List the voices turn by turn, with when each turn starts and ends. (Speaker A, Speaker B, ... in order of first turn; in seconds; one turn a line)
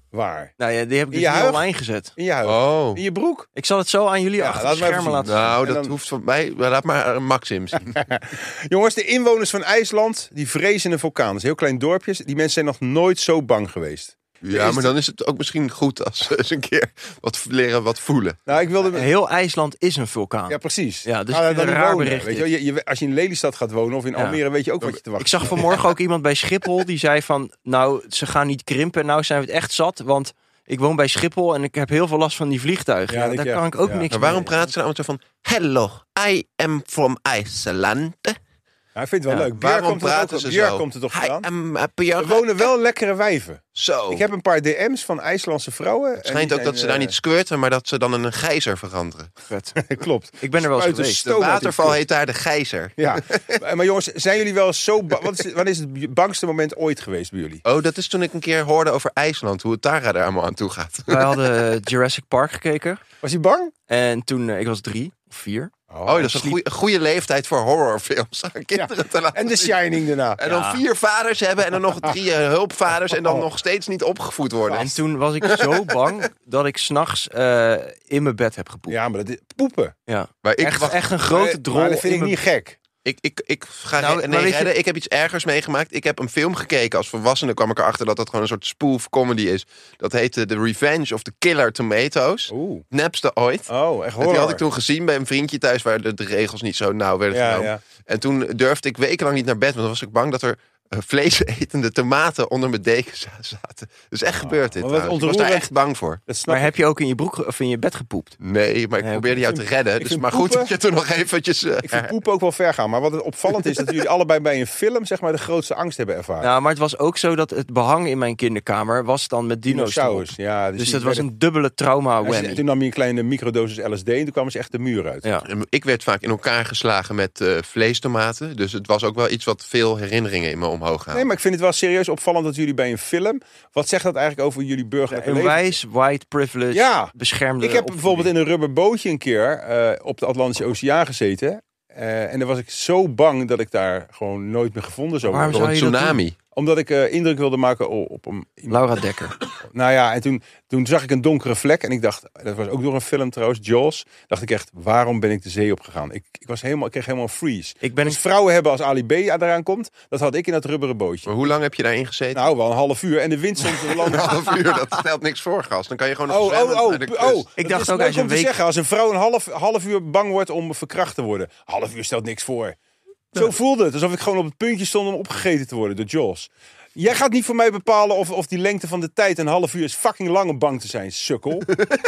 Speaker A: 0.1-0.5
Speaker B: 0.6-2.1
Speaker A: 1.1-1.6
Speaker A: 2.2-3.5
Speaker C: 2.5-3.0
Speaker B: 3.5-5.5
Speaker A: 4.4-5.9
Speaker C: 5.2-8.0
Speaker A: 7.9-14.9
Speaker C: 14.4-18.4
Speaker A: 18.5-19.1
Speaker B: 18.9-22.5
Speaker A: 20.5-25.7
Speaker B: 24.1-34.6
Speaker A: 33.1-34.1
Speaker C: 34.1-38.4
Speaker A: 39.0-41.5
Speaker C: 39.5-42.7
Speaker A: 42.2-47.1
Speaker C: 43.8-44.3
Speaker C: 46.2-49.3
Speaker B: 49.5-49.8
Speaker A: 49.8-52.0
Speaker B: 50.4-51.2
Speaker C: 51.2-53.6
Speaker A: 53.0-57.6
Speaker C: 57.6-61.4
Speaker B: 61.1-63.0
Speaker A: 63.2-63.7
Speaker B: 63.9-66.6
Speaker A: 65.9-66.2
Speaker C: 66.1-69.8
Speaker A: 68.8-70.4
Speaker C: 70.4-76.1
Speaker B: 70.4-70.8
Speaker B: 74.8-79.0
Speaker A: 78.9-80.0
Speaker B: 80.1-82.4
Speaker C: 80.4-81.0
Speaker A: 81.2-82.8
Speaker C: 83.0-106.2
Speaker B: 84.0-84.7
Speaker A: 92.5-92.8
Speaker A: 93.7-94.6
Speaker A: 97.3-97.8
Speaker A: 104.3-105.7
Speaker A: 106.3-106.7
Speaker B: 106.5-108.4
Speaker C: 108.4-112.2
Speaker B: 109.0-109.6
Speaker A: 110.0-110.7
Speaker A: 111.8-116.5
Speaker B: 116.4-122.6
Speaker A: 119.7-121.3
Speaker A: 122.2-125.2
Speaker C: 125.5-131.3
Speaker A: 131.1-135.7
Speaker B: 135.1-138.3
Speaker A: 136.7-145.6
Speaker B: 145.2-146.2
Speaker C: 145.5-146.4
Speaker A: 146.5-148.8
Speaker B: 148.7-149.4
Speaker A: 149.7-161.3
Speaker B: 157.8-158.2
Speaker C: 161.3-162.4
Speaker A: 162.3-164.7
Speaker C: 163.6-167.4
Speaker A: 166.3-172.8
Speaker B: 167.6-168.6
Speaker A: 173.3-181.8